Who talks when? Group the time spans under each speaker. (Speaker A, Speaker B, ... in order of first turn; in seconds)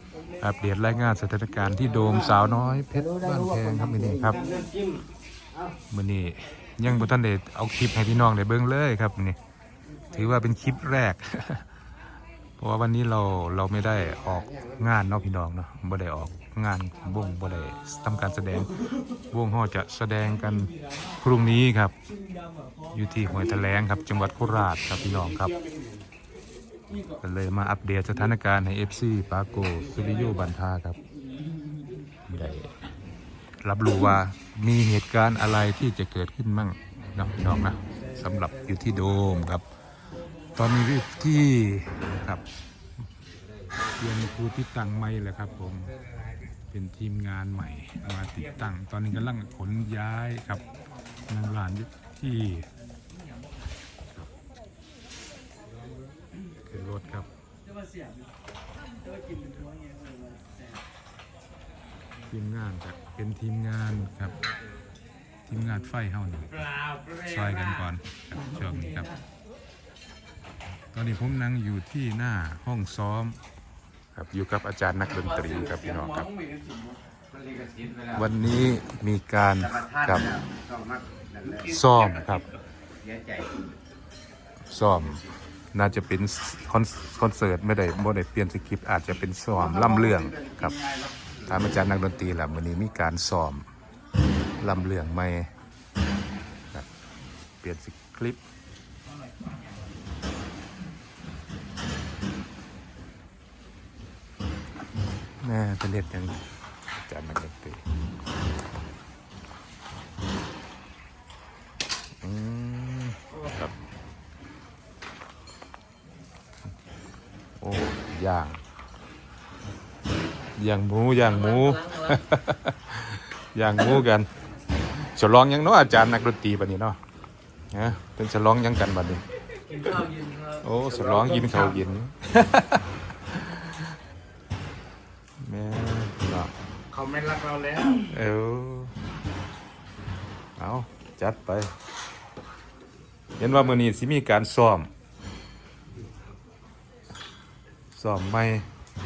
Speaker A: 0.4-4.4, 5.9-9.4, 10.1-11.7, 12.6-18.8, 19.3-21.9, 22.9-25.5, 27.2-31.0, 32.3-32.7, 33.6-39.7, 40.6-42.4, 44.0-45.9, 46.7-50.6, 51.3-52.7, 56.6-57.3, 62.3-64.3, 65.5-69.1, 70.9-73.4, 74.2-76.3, 78.2-80.2, 81.6-82.5, 84.7-85.2, 85.7-90.8, 91.5-93.7, 94.6-95.5, 97.6-98.4, 105.4-106.4, 107.0-107.8, 112.2-113.7, 117.6-118.6, 120.6-124.3, 125.0-127.0, 127.7-129.2, 130.6-133.9, 135.4-136.5, 138.1-138.9, 140.6-141.7, 143.4-144.9, 147.9-148.7
Speaker B: 1.9-5.8, 13.9-15.0, 43.4-44.0, 45.6-46.6, 77.3-78.3, 79.6-81.8, 83.0-83.6, 89.5-91.7, 130.9-131.6, 136.9-138.0
Speaker C: 4.3-4.7, 25.0-26.0, 29.6-30.5, 31.3-32.0, 38.1-38.8, 57.7-58.3, 59.0-60.7, 66.7-67.3, 75.0-77.0, 81.8-82.4, 129.5-130.8, 136.9-138.1